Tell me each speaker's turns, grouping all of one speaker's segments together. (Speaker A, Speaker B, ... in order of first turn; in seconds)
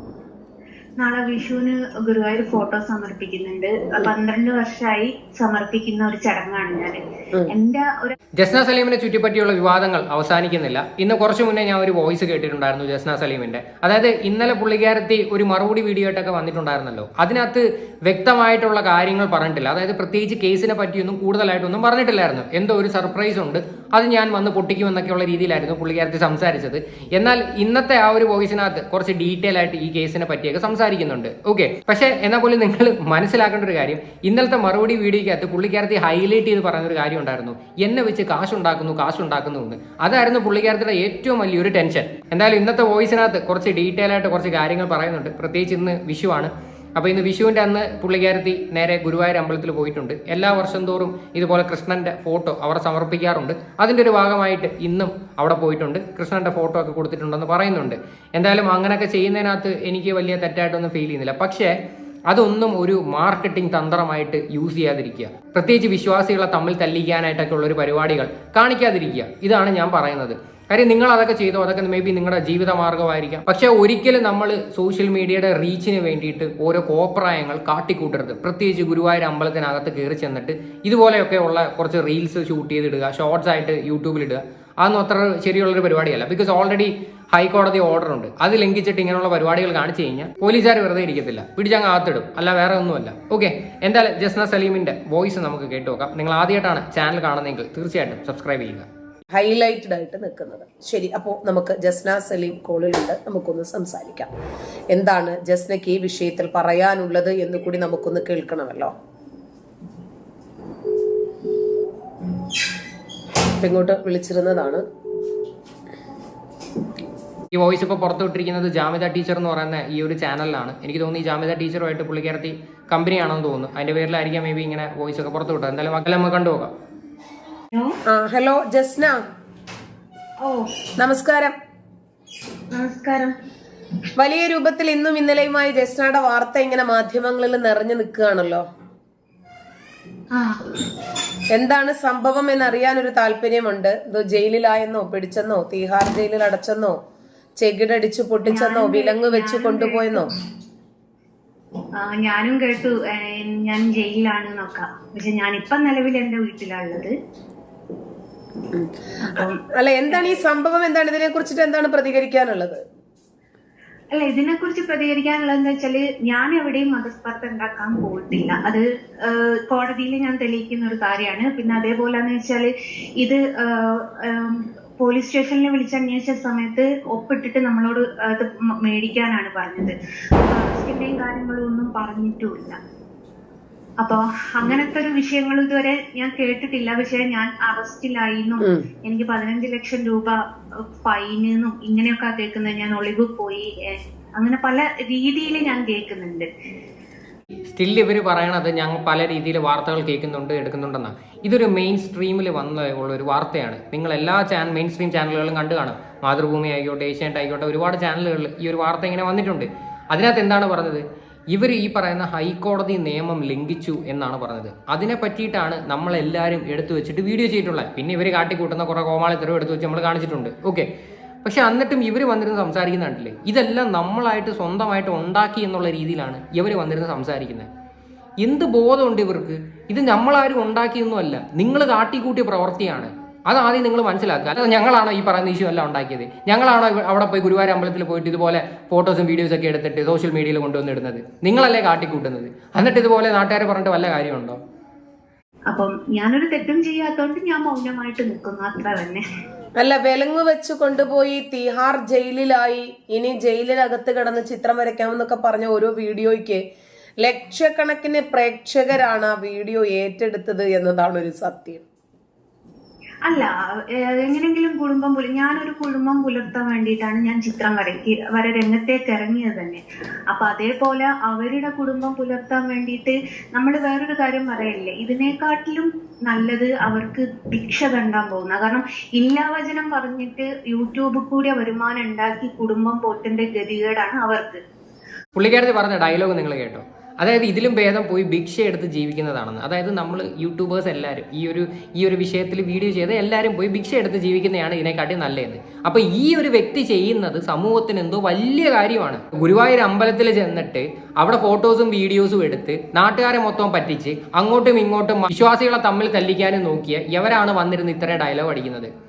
Speaker A: 1.0-8.1, 130.4-130.7, 132.7-133.3, 140.3-140.6, 148.4-150.3, 152.0-157.1, 159.2-160.5, 164.1-182.8, 184.0-190.3, 191.0-196.5, 245.7-249.2, 263.2-284.6
Speaker B: 8.4-61.7, 62.3-98.8, 117.5-126.7, 197.7-220.9, 221.4-227.7, 228.4-244.6, 285.4-308.9
Speaker C: 99.3-104.3, 104.9-108.9, 113.6-114.8, 128.1-129.2, 131.0-131.5, 134.2-138.6, 141.5-147.0, 147.6-150.3, 158.7-162.8, 249.8-256.6, 257.2-261.8